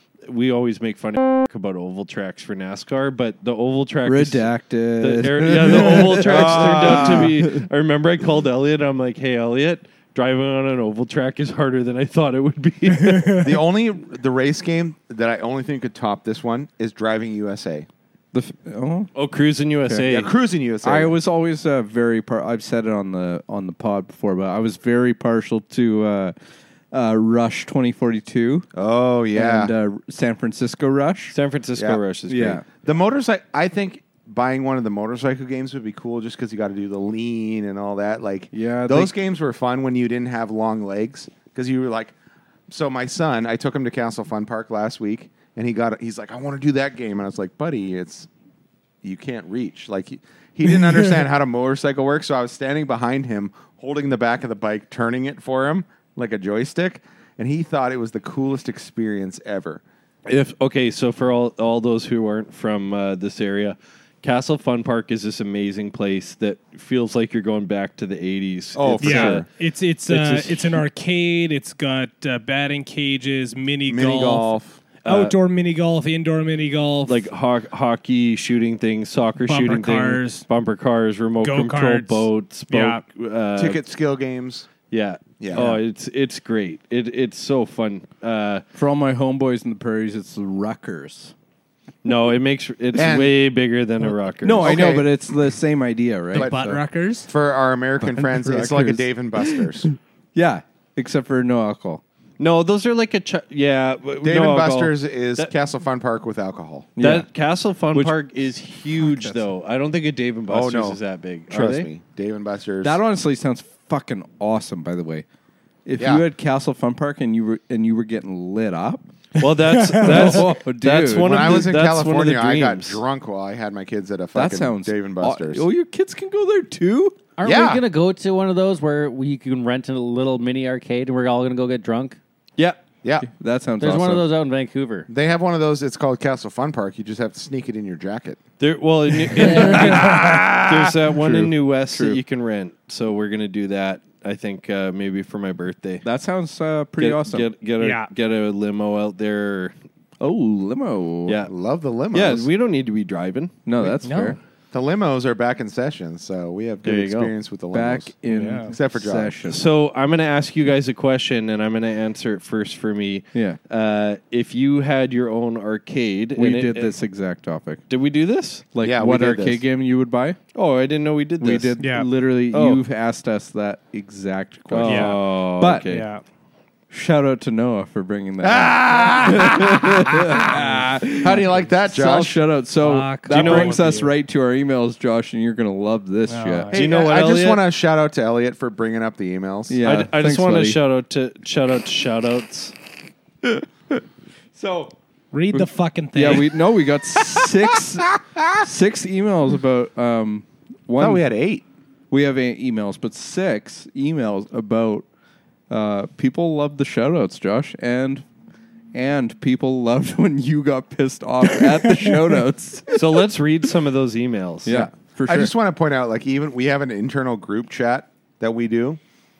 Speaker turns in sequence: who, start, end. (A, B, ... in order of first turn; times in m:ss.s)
0:00.3-0:13.5 A
0:04.0-0:07.6 B
0:06.2-0:07.3 C
0:13.0-0:13.5 D
0:13.4-0:17.9 C
0:18.3-0:19.1 B
0:19.1-0:20.3 A
0:20.0-0:21.2 C
0:20.8-0:26.3 B
0:26.9-0:28.7 B
0:28.7-0:29.7 C
0:29.3-0:31.3 B
0:31.3-0:32.6 A
0:32.3-0:32.6 B
0:32.8-0:42.1 C
0:38.5-0:39.1 B
0:42.7-0:48.3 C
0:49.0-0:59.8 C
1:00.2-1:09.4 A
1:08.7-1:09.5 C
1:09.0-1:14.5 D
1:10.1-1:10.8 A
1:13.9-1:14.8 C
1:15.0-1:15.4 A
1:15.0-1:17.2 D
1:17.1-1:23.8 A
1:19.4-1:20.4 D
1:21.4-1:23.0 D
1:23.6-1:24.7 C
1:24.9-1:28.6 A
1:25.4-1:25.8 C
1:28.7-1:31.3 B
1:32.0-1:34.8 A
1:32.9-1:33.3 C
1:34.4-1:36.8 B
1:34.6-1:35.1 C
1:36.3-1:36.7 C
1:36.3-1:37.3 D
1:37.3-1:39.9 C
1:38.0-1:42.0 B
1:42.4-1:45.5 A
1:44.2-1:46.9 C
1:47.0-1:47.3 B
1:47.0-1:51.9 A
1:49.0-1:49.4 B
1:50.5-1:51.0 C
1:51.5-1:53.0 C
1:52.8-1:55.2 B
1:55.8-1:59.0 B
1:56.0-1:56.2 C
1:59.4-2:03.0 A
1:59.7-2:00.5 D
2:00.0-2:01.7 B
2:01.2-2:05.6 C
2:04.3-2:07.2 B
2:07.4-2:12.2 E
2:07.4-2:07.8 C
2:13.2-2:14.2 B
2:13.8-2:15.1 E
2:15.1-2:18.4 C
2:18.6-2:26.0 A
2:19.4-2:20.0 E
2:19.7-2:20.9 C
2:19.8-2:20.4 D
2:21.2-2:22.2 B
2:26.0-2:27.5 B
2:27.0-2:29.7 A
2:27.8-2:28.1 D
2:30.2-2:31.4 B
2:31.2-2:31.5 A
2:31.4-2:32.5 C
2:32.1-2:34.0 A
2:33.6-2:34.4 B
2:34.0-2:34.3 D
2:34.7-2:39.4 C
2:36.8-2:37.3 A
2:37.7-2:39.6 B
2:38.3-2:38.7 D
2:39.5-2:46.9 A
2:46.4-2:47.8 B
2:47.9-2:48.6 A
2:48.7-2:50.4 B
2:48.8-2:49.6 C
2:50.5-2:51.7 A
2:51.4-2:55.9 B
2:51.8-2:52.1 D
2:52.5-2:52.8 A
2:54.7-2:56.0 A
2:54.8-2:55.2 D
2:55.8-2:56.2 D
2:56.9-3:06.7 B
2:58.4-3:02.4 C
3:02.8-3:04.1 D
3:03.3-3:03.8 A
3:06.3-3:06.9 D
3:06.7-3:07.6 A
3:06.7-3:09.8 C
3:09.7-3:10.8 B
3:09.8-3:12.7 A
3:13.4-3:14.0 B
3:14.5-3:14.9 B
3:15.3-3:16.6 D
3:15.5-3:21.2 B
3:21.0-3:21.6 C
3:22.1-3:25.0 B
3:25.7-3:28.2 B
3:28.9-3:33.0 B
3:32.9-3:34.7 A
3:34.6-3:35.5 B
3:34.7-3:39.0 C